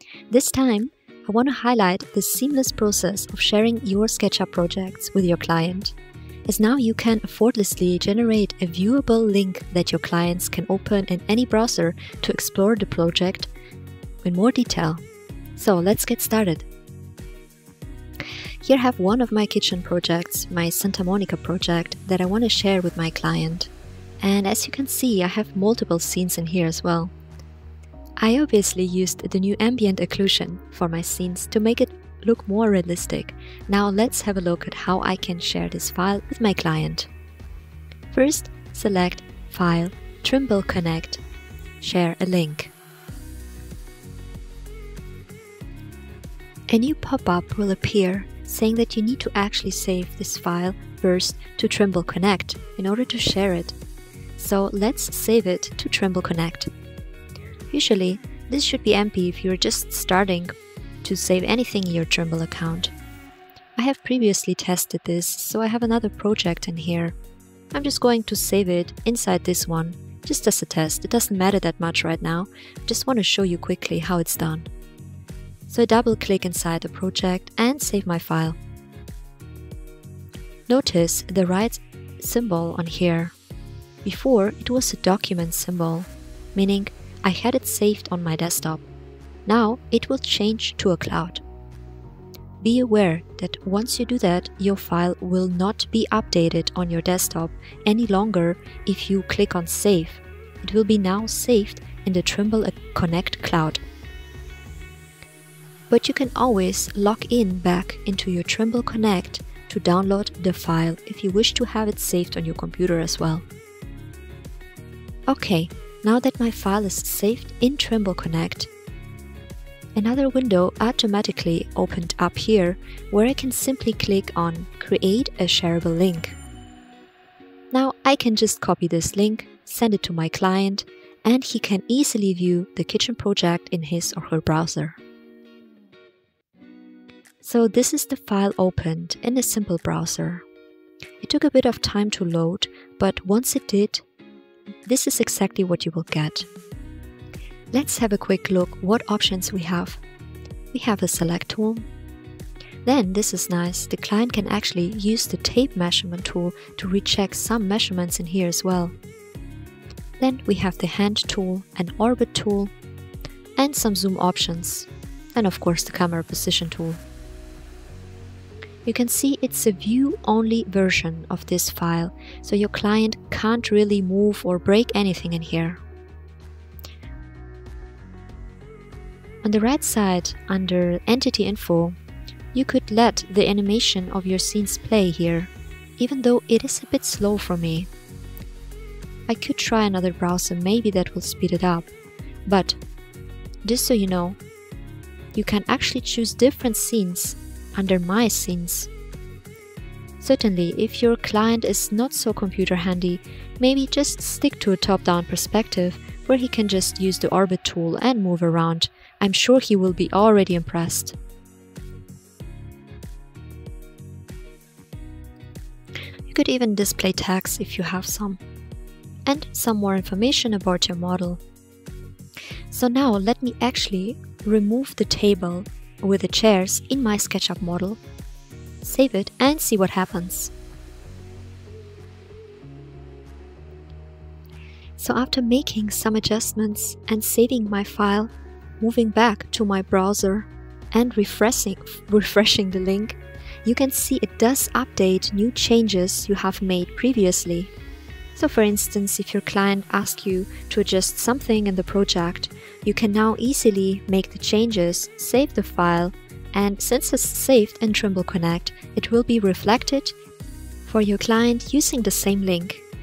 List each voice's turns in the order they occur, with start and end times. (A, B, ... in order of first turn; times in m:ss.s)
0:00.3-0:05.9 A
0:06.5-0:13.5 A
0:14.2-0:15.0 A
0:15.6-0:16.6 A
0:18.6-0:27.1 A
0:28.2-0:37.1 A
0:38.1-0:41.2 A
0:41.8-0:42.7 A
0:46.7-0:53.7 A
0:54.4-0:56.7 A
0:57.7-1:02.9 A
1:03.8-1:07.2 A
1:07.7-1:14.7 A
1:15.7-1:18.6 A
1:20.7-1:23.3 A
1:24.0-1:28.8 A
1:29.4-1:31.4 A
1:32.6-1:43.8 A
1:45.9-1:53.4 A
1:55.3-1:58.7 A
2:00.0-2:06.4 A
2:07.7-2:15.0 A
2:17.4-2:20.4 A
2:21.2-2:24.0 A
2:24.8-2:26.5 A
2:27.7-2:30.0 A
2:30.7-2:31.8 A
2:32.8-2:38.9 A
2:40.2-2:42.7 A
2:43.6-2:47.0 A
2:48.8-2:55.8 A
2:59.4-3:02.0 A
3:02.5-3:07.9 A
3:09.3-3:11.9 A
3:12.5-3:12.8 A
3:13.6-3:14.4 A
3:15.3-3:18.9 A
3:20.2-3:31.1 A
3:36.3-3:38.4 A
3:39.2-3:41.4 A
3:42.7-3:48.0 A
3:48.8-3:50.5 A
3:55.0-4:07.7 A
4:08.3-4:20.1 A
4:20.8-4:22.8 A